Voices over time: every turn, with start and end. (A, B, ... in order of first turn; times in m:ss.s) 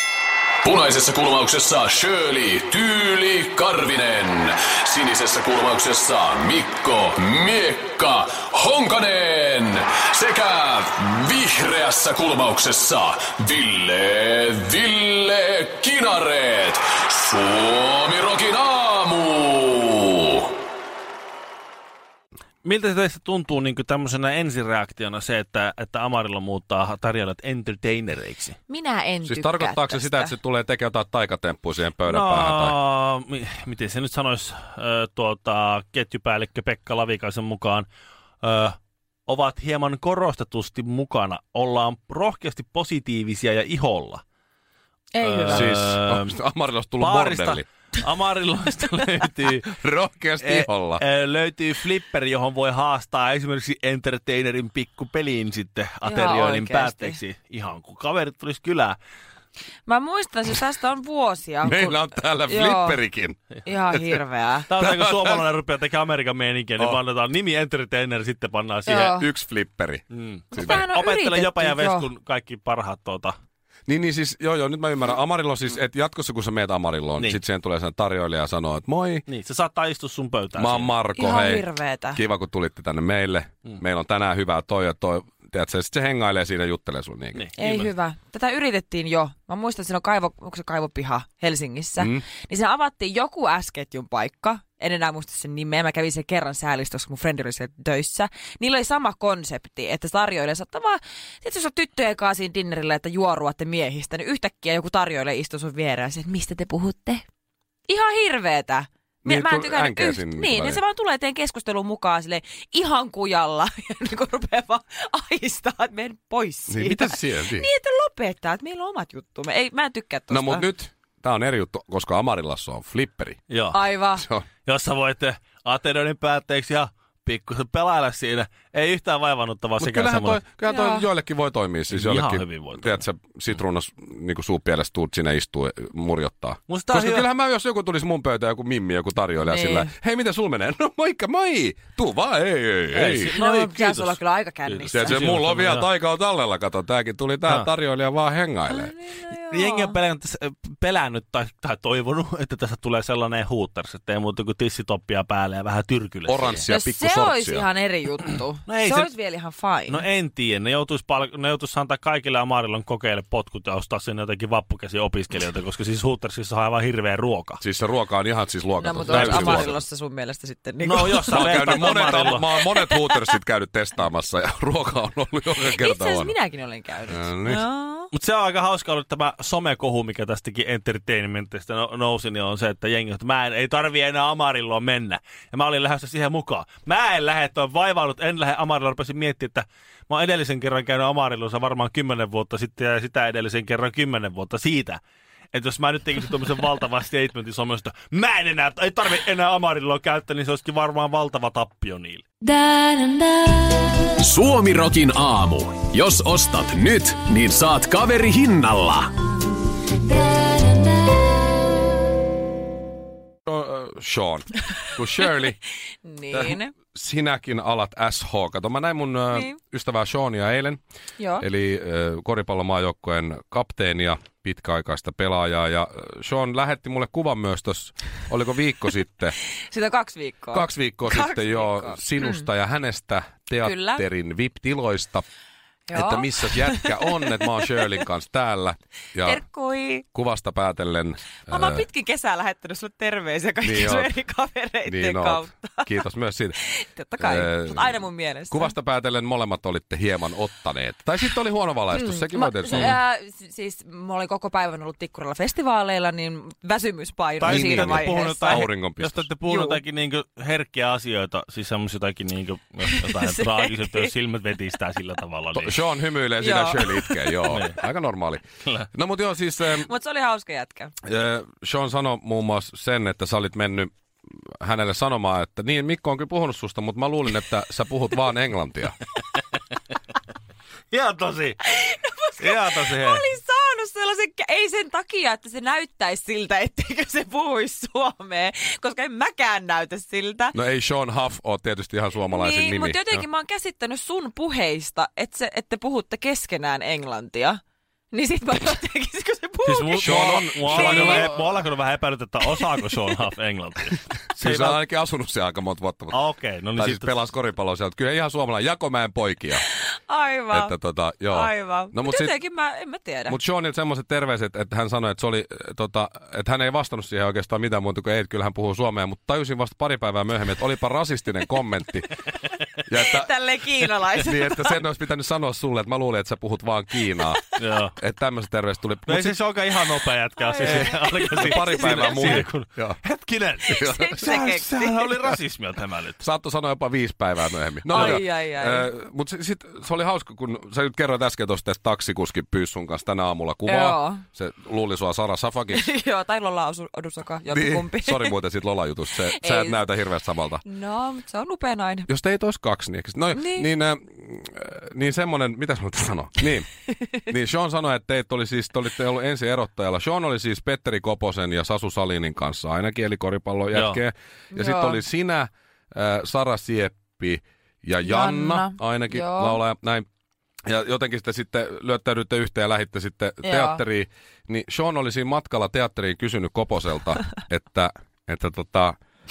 0:00.6-0:20.5 A
0:22.6-0:28.6 B
0:28.7-0:30.3 C
0:29.2-0:32.8 D
0:32.0-0:37.9 B
0:38.4-0:38.8 B
0:39.3-0:44.2 B
0:45.1-0:45.7 C
0:45.2-0:46.4 B
0:45.4-0:47.6 D
0:47.0-0:49.7 B
0:49.6-0:51.0 D
0:50.4-0:59.0 B
0:56.0-0:57.2 C
0:59.8-1:03.0 C
1:01.6-1:03.4 D
1:03.6-1:04.7 C
1:03.9-1:04.2 D
1:04.7-1:09.1 B
1:04.8-1:05.4 D
1:08.9-1:09.3 C
1:08.9-1:10.8 D
1:10.1-1:13.3 B
1:10.5-1:12.1 C
1:13.9-1:19.2 D
1:19.3-1:20.9 B
1:20.5-1:27.4 D
1:21.2-1:22.2 C
1:27.3-1:27.9 B
1:27.6-1:47.2 C
1:32.0-1:32.2 D
1:47.9-2:00.7 C
1:49.2-1:50.8 D
1:56.7-1:57.7 D
2:00.3-2:03.4 D
2:03.5-2:03.8 B
2:03.7-2:04.3 C
2:04.1-2:04.4 D
2:04.6-2:10.4 B
2:09.8-2:23.4 D
2:10.6-2:11.1 C
2:11.9-2:13.0 B
2:16.7-2:17.3 B
2:19.4-2:19.9 C
2:22.9-2:25.9 B
2:23.2-2:25.3 C
2:24.9-2:28.9 D
2:28.7-2:30.0 C
2:29.3-2:36.6 B
2:36.2-2:37.7 D
2:36.7-2:40.0 C
2:38.6-2:39.1 B
2:39.9-2:47.6 B
2:47.6-2:49.8 D
2:48.8-2:53.2 C
2:49.1-2:49.8 B
2:50.8-2:52.4 B
2:51.2-2:56.3 D
2:55.6-2:58.1 C
2:57.1-2:57.6 D
2:58.1-3:15.0 B
3:15.5-3:22.2 B
3:24.2-3:29.1 A
3:33.4-3:35.6 D
3:36.0-3:36.7 C
3:36.3-3:40.8 D
3:39.3-3:39.6 C
3:41.2-3:41.4 C
3:41.4-3:49.3 D
3:49.7-3:52.5 C
3:50.5-3:55.2 D
3:53.6-3:54.0 C
3:55.9-3:57.7 C
3:55.9-3:59.4 D
3:59.2-4:00.0 C
4:00.1-4:01.9 D
4:01.5-4:05.9 C
4:03.6-4:04.1 D
4:04.8-4:06.6 D
4:06.6-4:08.7 C
4:07.2-4:13.0 D
4:11.9-4:18.7 C
4:17.4-4:25.7 B
4:17.4-4:19.2 D
4:19.5-4:19.8 C
4:22.9-4:24.1 C
4:25.5-4:29.9 D
4:26.4-4:27.4 C
4:27.5-4:27.8 B
4:29.7-4:30.9 C
4:31.0-4:33.9 D
4:34.6-4:39.0 D
4:40.9-4:41.6 B
4:41.6-4:50.5 C
4:42.4-4:43.2 B
4:50.5-4:53.2 D
4:52.3-4:57.6 C
4:58.1-5:01.4 C
4:59.6-5:04.8 B
5:00.0-5:01.3 D
5:04.3-5:06.2 D
5:06.1-5:07.2 B
5:06.7-5:09.6 D
5:09.8-5:10.7 C
5:10.5-5:12.3 D
5:11.3-5:13.4 C
5:13.3-5:22.1 D
5:22.8-5:27.4 D
5:23.0-5:24.8 C
5:27.6-5:28.0 B
5:28.0-5:29.4 D
5:29.1-5:36.2 B
5:30.4-5:32.4 C
5:30.6-5:33.0 D
5:33.6-5:34.4 D
5:33.7-5:35.1 C
5:36.2-5:45.9 D
5:37.9-5:38.9 C
5:37.9-5:38.2 B
5:43.6-5:44.2 C
5:45.7-5:48.4 C
5:47.5-5:50.6 D
5:49.2-5:49.8 C
5:50.6-5:52.1 C
5:52.1-5:56.7 D
5:53.3-5:53.7 C
5:57.3-6:10.0 D
6:03.7-6:04.0 B
6:04.5-6:05.0 C
6:08.0-6:09.6 C
6:10.7-6:19.0 D
6:13.4-6:13.8 C